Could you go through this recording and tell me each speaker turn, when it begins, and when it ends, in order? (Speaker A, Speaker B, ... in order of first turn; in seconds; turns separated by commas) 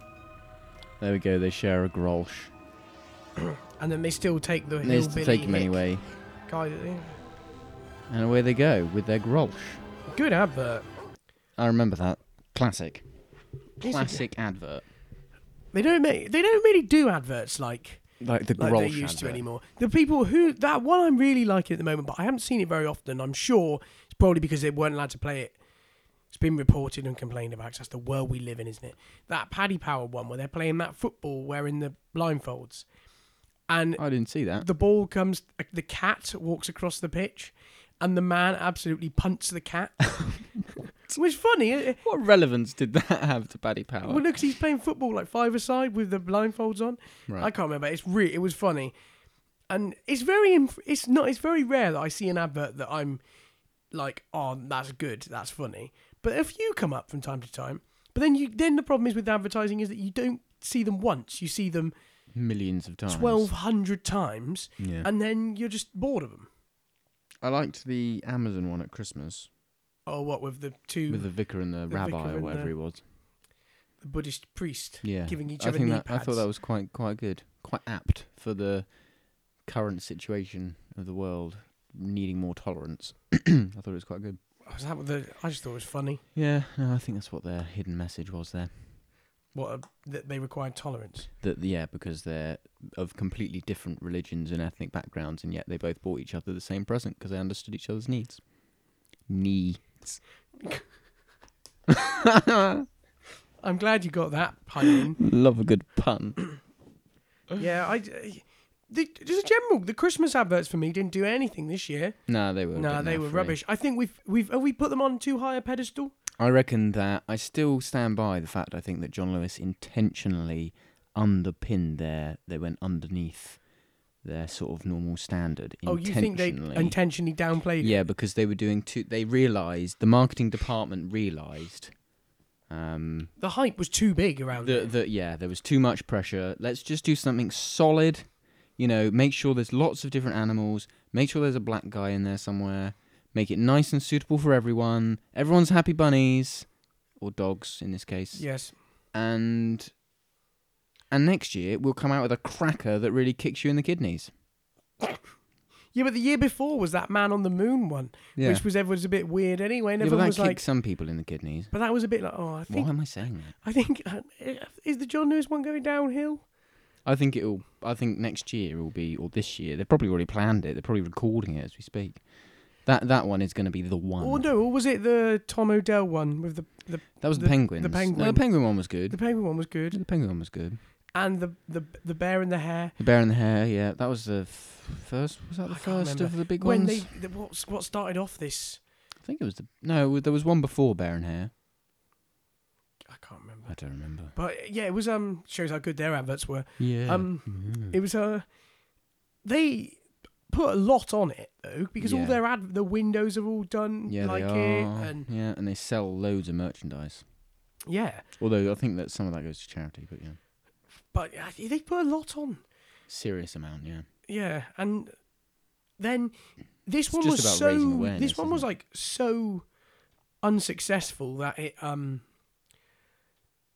Speaker A: 1.0-2.5, Speaker B: 3.4-5.8, Speaker A: 4.8-6.0, Speaker B: 6.5-7.2, Speaker A: 8.1-9.8, Speaker B: 10.1-10.8, Speaker A: 11.6-13.1, Speaker B: 13.8-14.2, Speaker A: 13.8-14.8, Speaker B: 15.7-18.0, Speaker A: 18.2-19.4, Speaker B: 18.6-25.6, Speaker B: 26.3-32.9, Speaker B: 33.7-40.5, Speaker A: 34.0-34.7, Speaker B: 41.1-42.0, Speaker A: 42.0-44.2, Speaker B: 44.0-48.9, Speaker B: 49.7-53.2, Speaker B: 53.9-61.9, Speaker A: 62.3-63.5, Speaker B: 63.1-66.5, Speaker A: 64.8-65.1, Speaker A: 67.4-69.5, Speaker B: 70.0-72.7, Speaker A: 71.1-73.0, Speaker B: 74.0-76.5, Speaker A: 75.0-78.9, Speaker A: 79.6-84.4, Speaker B: 84.7-86.2, Speaker A: 86.3-89.0, Speaker B: 89.5-91.3, Speaker A: 91.4-98.4, Speaker A: 99.3-100.2, Speaker A: 101.9-102.9, Speaker B: 103.6-105.2, Speaker A: 105.2-106.4, Speaker B: 107.5-112.2, Speaker A: 112.3-113.6, Speaker B: 112.7-116.1, Speaker A: 116.4-123.6, Speaker A: 124.2-127.0, Speaker B: 125.8-127.9, Speaker A: 127.8-131.9, Speaker A: 132.7-133.3, Speaker B: 133.4-134.9, Speaker A: 134.6-148.4, Speaker B: 148.3-148.7, Speaker A: 149.1-149.9, Speaker A: 151.1-154.3, Speaker B: 155.9-160.6, Speaker A: 158.3-158.6, Speaker A: 160.0-161.7, Speaker B: 161.7-163.0, Speaker A: 162.7-163.5, Speaker B: 163.5-166.4, Speaker A: 167.0-172.2, Speaker A: 172.8-174.4, Speaker B: 174.2-180.0, Speaker A: 177.2-179.2, Speaker A: 179.9-180.8, Speaker B: 181.1-182.9, Speaker A: 183.0-187.2, Speaker B: 185.7-188.8, Speaker A: 189.2-191.5, Speaker B: 193.1-193.8, Speaker A: 193.7-194.3, Speaker B: 194.3-198.4, Speaker A: 196.8-198.0, Speaker B: 199.4-205.3, Speaker A: 202.0-202.4, Speaker A: 204.1-207.2, Speaker B: 207.9-208.2, Speaker A: 208.4-210.4, Speaker B: 211.1-212.6, Speaker A: 213.1-214.1, Speaker B: 214.3-215.1, Speaker B: 216.0-219.7, Speaker A: 217.1-218.7, Speaker B: 220.4-222.2